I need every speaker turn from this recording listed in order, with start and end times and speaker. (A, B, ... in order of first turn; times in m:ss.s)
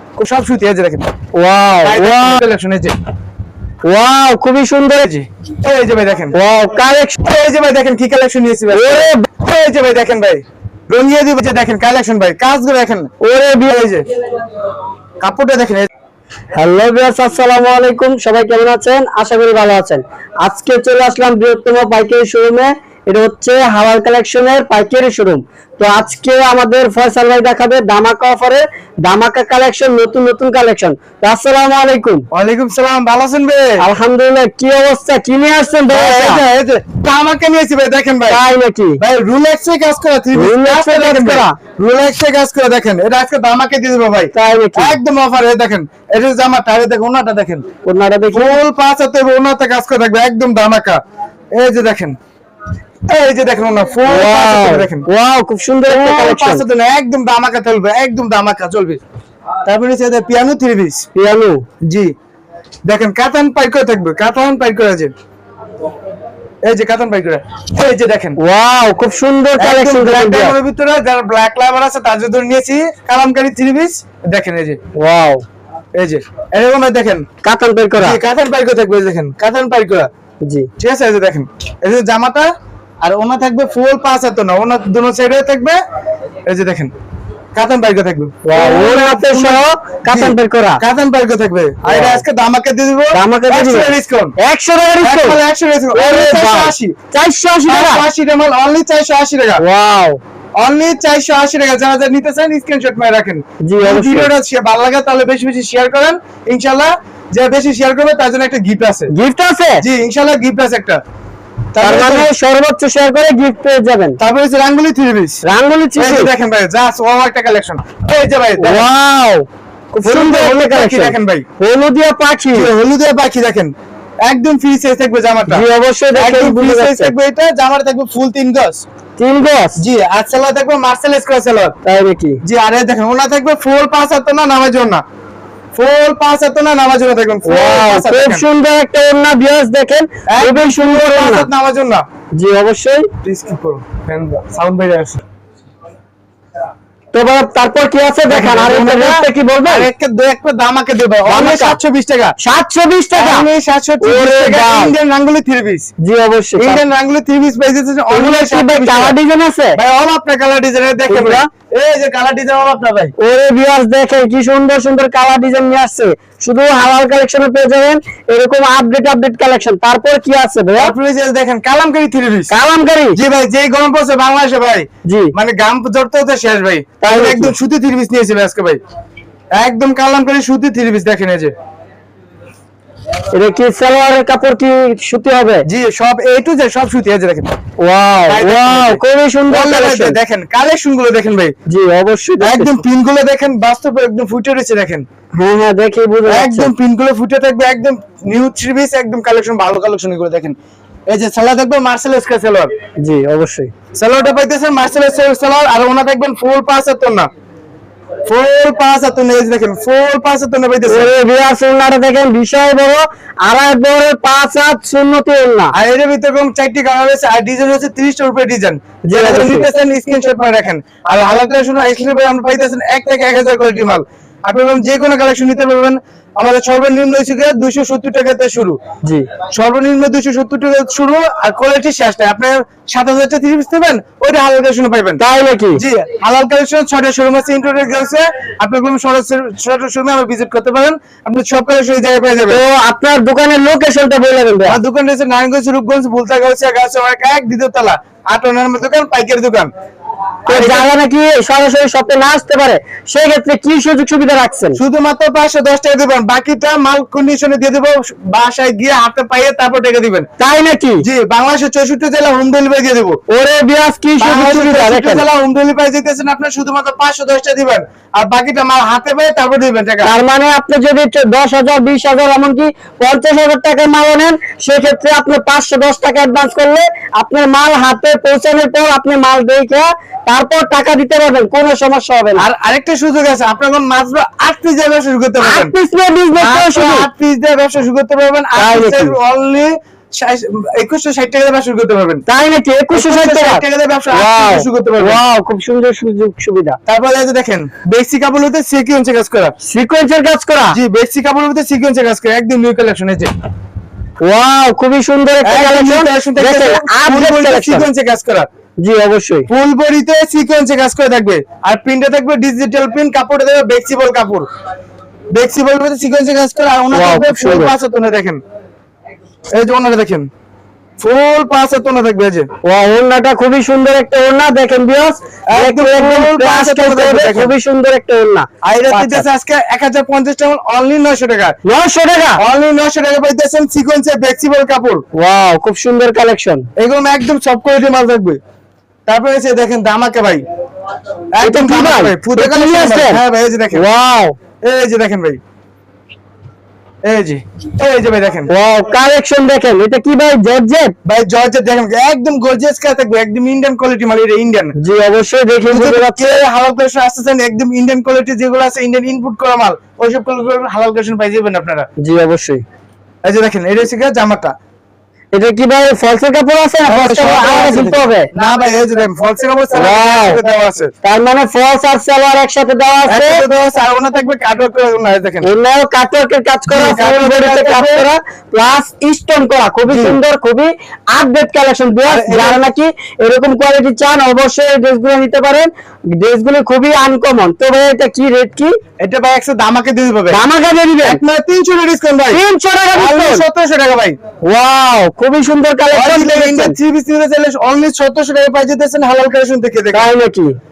0:00.2-0:01.1 A
0:01.3-0:02.4 B
0:01.8-0:02.9 A
0:03.8-0:05.1 B
0:05.0-0:06.4 A
0:06.3-0:07.2 B
0:07.2-0:13.1 A
0:08.7-0:09.3 B
0:13.2-0:13.9 B
0:13.6-0:14.0 A
0:15.2-0:15.9 A
0:16.5-0:32.2 B
0:32.3-0:33.8 A
0:33.8-0:36.4 B
0:35.9-0:38.4 A
0:38.3-0:39.0 B
0:39.0-0:47.6 A
0:40.3-0:41.6 B
0:44.3-0:45.0 B
0:47.8-0:48.6 B
0:48.3-0:51.0 A
0:51.5-0:52.2 A
0:53.1-0:55.0 A
0:54.0-0:56.6 B
0:55.9-0:59.0 A
0:59.6-1:01.1 A
1:01.1-1:01.6 B
1:01.8-1:02.1 A
1:02.9-1:05.1 A
1:06.6-1:08.4 A
1:08.4-1:10.6 B
1:09.6-1:14.8 A
1:15.0-1:15.4 B
1:16.0-1:17.2 A
1:17.4-1:18.2 B
1:18.0-1:20.1 A
1:20.4-1:20.7 B
1:20.8-1:22.5 A
1:23.0-1:25.8 A
1:26.5-1:26.9 A
1:27.5-1:34.3 A
1:28.4-1:30.8 B
1:31.8-1:32.2 B
1:33.1-1:35.4 B
1:35.0-1:36.9 A
1:35.9-1:38.0 B
1:37.7-1:39.6 A
1:39.6-1:40.2 B
1:40.6-1:49.1 A
1:43.6-1:44.3 B
1:49.1-1:49.8 B
1:49.8-1:51.0 A
1:51.7-1:52.3 A
1:51.8-1:54.2 B
1:54.2-1:55.4 A
1:55.4-1:56.3 B
1:56.0-1:58.8 A
1:58.6-2:02.7 B
2:00.0-2:01.4 A
2:02.5-2:03.7 A
2:04.2-2:05.6 A
2:05.5-2:07.1 B
2:06.2-2:08.8 A
2:09.2-2:09.8 B
2:09.8-2:11.7 A
2:11.8-2:12.4 B
2:12.4-2:15.0 A
2:15.7-2:18.4 A
2:17.4-2:21.5 B
2:20.3-2:22.0 A
2:22.3-2:23.1 B
2:23.2-2:25.2 A
2:27.1-2:29.9 B
2:28.3-2:32.4 A
2:31.2-2:31.8 B
2:32.4-2:33.5 B
2:33.1-2:35.9 A
2:34.0-2:34.9 B
2:36.0-2:36.8 B
2:36.6-2:39.2 A
2:38.1-2:39.8 B
2:39.8-2:43.1 A
2:41.1-2:41.5 B
2:43.2-2:50.9 B
2:50.8-2:52.5 A
2:52.5-2:53.2 B
2:53.1-2:58.8 A
2:55.1-2:55.3 B
2:57.0-2:57.5 B
2:59.6-3:01.5 A
3:03.3-3:05.6 B
3:05.7-3:07.5 A
3:07.8-3:10.2 B
3:08.3-3:11.5 A
3:11.7-3:12.8 B
3:12.4-3:15.0 A
3:15.3-3:16.7 B
3:16.3-3:20.6 A
3:21.1-3:22.7 A
3:23.0-3:23.7 B
3:24.0-3:27.3 A
3:28.3-3:31.1 A
3:30.8-3:35.7 B
3:35.7-3:48.8 A
3:39.1-3:39.7 B
3:49.5-3:55.2 A
3:55.2-3:55.8 B
3:55.7-4:02.6 A
4:02.5-4:04.8 B
4:04.7-4:09.7 A
4:10.5-4:10.8 A
4:10.5-4:14.8 B
4:14.8-4:20.3 A
4:20.4-4:21.0 B
4:21.0-4:23.2 A
4:23.3-4:25.2 B
4:24.2-4:30.1 A
4:30.0-4:42.4 B
4:42.4-4:45.7 A
4:45.4-4:47.1 B
4:46.4-4:52.2 A
4:48.6-4:49.2 B
4:52.3-4:56.8 B
4:52.9-4:55.2 A
4:56.9-4:59.5 A
4:59.6-5:00.8 B
5:00.7-5:03.3 A
5:04.2-5:07.9 B
5:05.4-5:08.5 A
5:08.8-5:09.5 B
5:09.5-5:14.5 A
5:15.3-5:18.4 A
5:16.9-5:17.7 B
5:19.5-5:20.3 A
5:21.0-5:22.5 A
5:22.6-5:29.2 B
5:25.5-5:27.5 A
5:28.6-5:31.6 A
5:31.6-5:32.4 B
5:32.4-5:35.0 A
5:35.1-5:36.6 B
5:36.8-5:38.4 A
5:39.1-5:40.4 A
5:41.3-5:43.8 A
5:41.4-5:43.2 B
5:43.7-5:44.4 B
5:44.6-5:45.4 A
5:47.0-5:48.5 A
5:48.5-5:50.9 B
5:51.0-5:54.7 A
5:54.8-5:56.4 B
5:55.7-6:01.9 A
6:02.0-6:02.6 B
6:03.2-6:04.5 A
6:05.3-6:08.3 B
6:06.8-6:10.9 A
6:09.7-6:10.4 B
6:11.0-6:13.4 B
6:13.1-6:15.5 A
6:15.4-6:28.7 B
6:16.7-6:18.0 A
6:19.9-6:20.2 A
6:22.1-6:22.6 A
6:29.0-6:30.4 A
6:30.3-6:31.2 B
6:31.0-6:32.4 A
6:32.3-6:33.4 B
6:32.9-6:34.2 A
6:34.4-6:36.8 B
6:35.9-6:40.1 A
6:39.9-6:40.5 B